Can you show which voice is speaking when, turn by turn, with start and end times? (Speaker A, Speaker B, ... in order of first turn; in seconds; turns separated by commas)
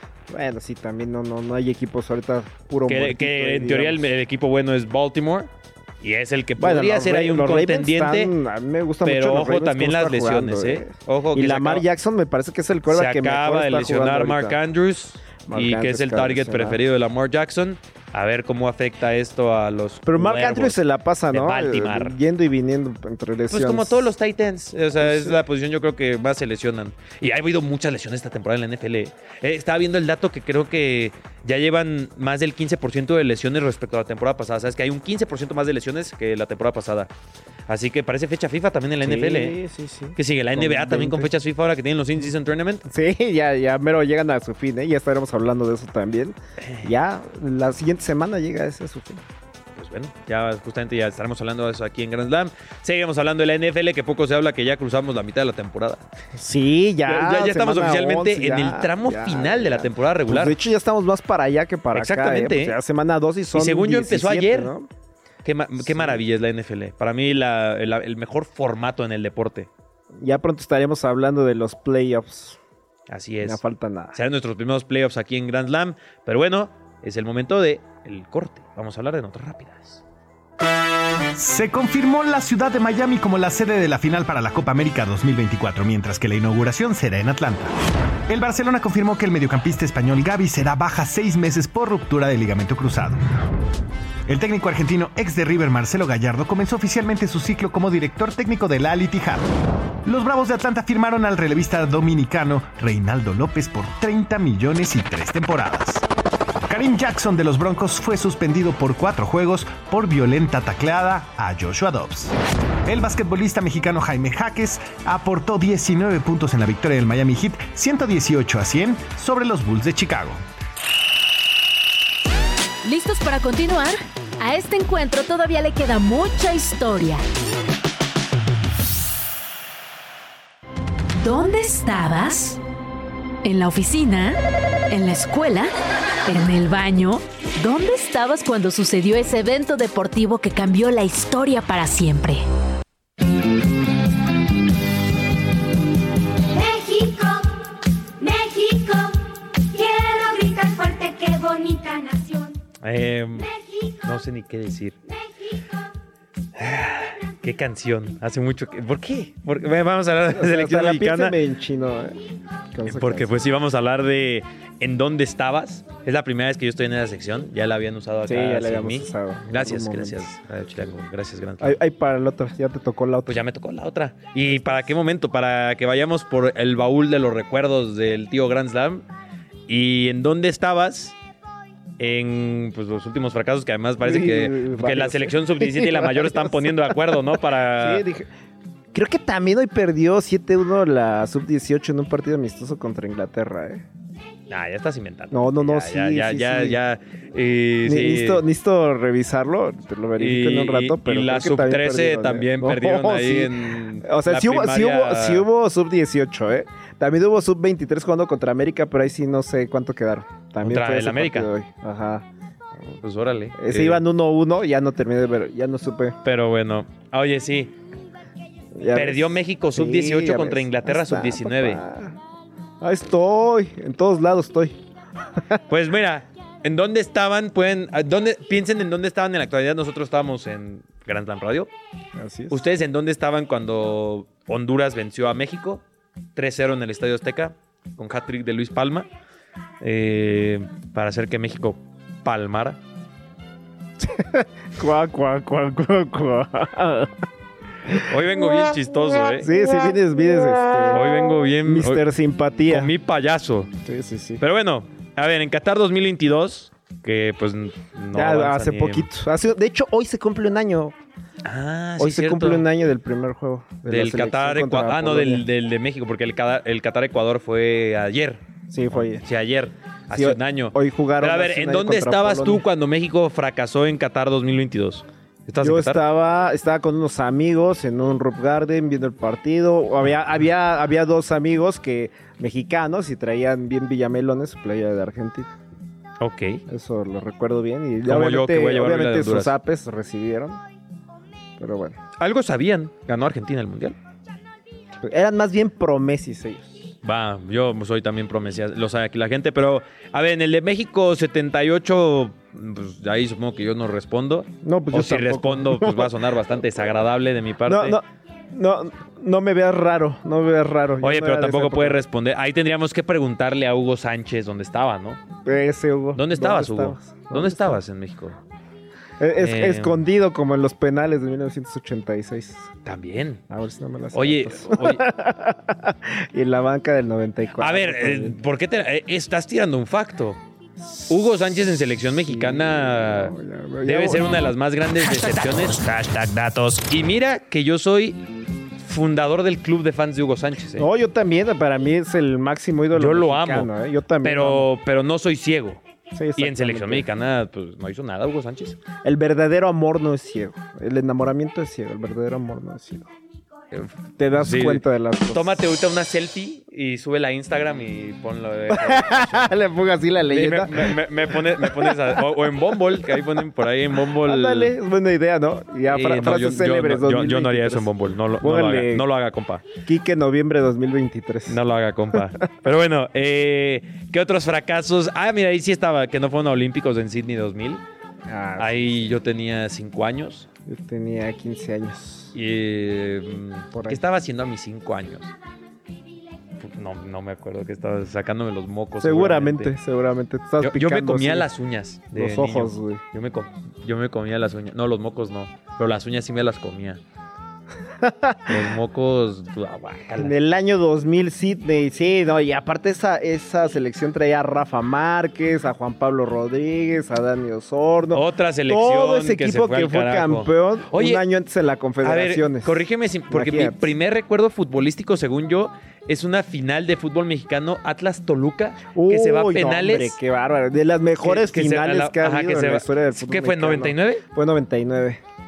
Speaker A: 0.3-4.1, Speaker B: 2.8-5.5, Speaker B: 6.0-8.3, Speaker A: 6.6-14.6, Speaker B: 9.0-11.8, Speaker B: 12.9-22.1, Speaker A: 15.4-16.8, Speaker A: 20.1-24.1, Speaker B: 23.5-37.1, Speaker A: 25.0-25.4, Speaker B: 37.7-39.6, Speaker A: 39.0-41.3, Speaker B: 40.1-42.8, Speaker A: 42.9-49.2, Speaker B: 46.6-46.9, Speaker B: 49.8-56.0, Speaker A: 56.3-64.9, Speaker B: 57.0-60.5, Speaker B: 61.9-62.8, Speaker B: 63.5-64.7, Speaker B: 65.4-69.7, Speaker A: 65.8-66.2, Speaker A: 70.2-72.6, Speaker B: 73.1-73.6, Speaker A: 73.4-74.2, Speaker B: 74.1-80.0, Speaker C: 81.3-87.7, Speaker C: 88.3-93.2, Speaker C: 94.3-99.5, Speaker C: 100.0-106.0, Speaker C: 106.7-112.3, Speaker C: 112.8-120.4, Speaker D: 122.8-127.2, Speaker D: 131.2-132.6, Speaker D: 133.4-134.4, Speaker D: 134.9-135.7, Speaker D: 136.2-142.4, Speaker E: 146.5-147.5, Speaker E: 148.2-152.6, Speaker B: 152.8-153.5, Speaker E: 153.4-154.0, Speaker B: 154.0-155.0, Speaker B: 156.6-161.3, Speaker A: 160.3-162.2, Speaker A: 162.7-163.4, Speaker B: 162.8-171.8, Speaker A: 168.2-170.2, Speaker A: 171.6-173.4, Speaker B: 173.2-179.0, Speaker A: 174.5-174.9, Speaker B: 179.7-181.2, Speaker B: 182.0-188.0, Speaker A: 184.0-188.3, Speaker A: 188.9-193.8, Speaker B: 194.5-198.4, Speaker A: 195.3-196.8, Speaker A: 197.8-212.2, Speaker B: 200.2-205.5, Speaker B: 210.6-211.5, Speaker B: 213.0-214.0, Speaker A: 213.6-216.2, Speaker B: 216.2-217.7, Speaker A: 218.7-222.2, Speaker B: 218.9-221.8, Speaker A: 222.8-224.8, Speaker B: 225.7-231.7, Speaker A: 232.2-232.6, Speaker B: 232.5-235.8, Speaker B: 236.3-239.1, Speaker B: 239.8-242.8, Speaker A: 244.0-247.1, Speaker B: 247.9-249.5, Speaker A: 249.4-252.9, Speaker B: 250.9-252.0, Speaker B: 252.7-253.7, Speaker A: 253.8-254.4, Speaker B: 254.4-259.1, Speaker A: 258.1-260.9, Speaker B: 261.4-262.6, Speaker A: 262.0-265.4, Speaker B: 263.9-276.0, Speaker A: 268.7-269.2, Speaker A: 270.1-272.6, Speaker A: 275.6-285.5, Speaker B: 286.2-286.6, Speaker A: 286.7-290.6, Speaker B: 288.0-289.5, Speaker A: 291.6-292.0, Speaker B: 292.2-293.9, Speaker A: 295.0-296.9, Speaker B: 297.0-308.0, Speaker A: 304.6-306.2, Speaker A: 307.6-312.0, Speaker B: 311.0-315.2, Speaker A: 315.4-317.8, Speaker B: 316.1-318.4, Speaker A: 319.2-322.7, Speaker B: 319.4-320.0, Speaker B: 322.8-323.4, Speaker A: 323.5-328.4, Speaker B: 324.1-325.0, Speaker B: 327.6-330.4, Speaker A: 330.8-331.2, Speaker B: 331.1-338.2, Speaker A: 332.2-334.4, Speaker B: 338.8-340.9, Speaker A: 340.7-344.7, Speaker B: 342.9-343.7, Speaker B: 344.2-345.8, Speaker A: 346.1-347.1, Speaker B: 346.4-348.8, Speaker A: 349.0-353.1, Speaker B: 353.7-359.5, Speaker A: 354.2-355.6, Speaker A: 358.7-363.2, Speaker B: 360.3-364.7, Speaker A: 364.1-369.1, Speaker B: 365.9-369.6, Speaker A: 369.8-371.6, Speaker B: 371.5-377.8, Speaker A: 378.3-379.2, Speaker B: 378.6-380.5, Speaker A: 380.6-382.3, Speaker B: 382.3-385.3, Speaker A: 383.7-384.0, Speaker B: 386.6-389.7, Speaker A: 389.0-391.5, Speaker B: 390.6-397.0, Speaker A: 392.1-393.0, Speaker A: 398.0-398.6, Speaker B: 398.4-400.3, Speaker A: 400.1-413.9, Speaker B: 408.1-411.2, Speaker B: 412.0-420.2, Speaker A: 418.9-425.2, Speaker B: 421.2-424.2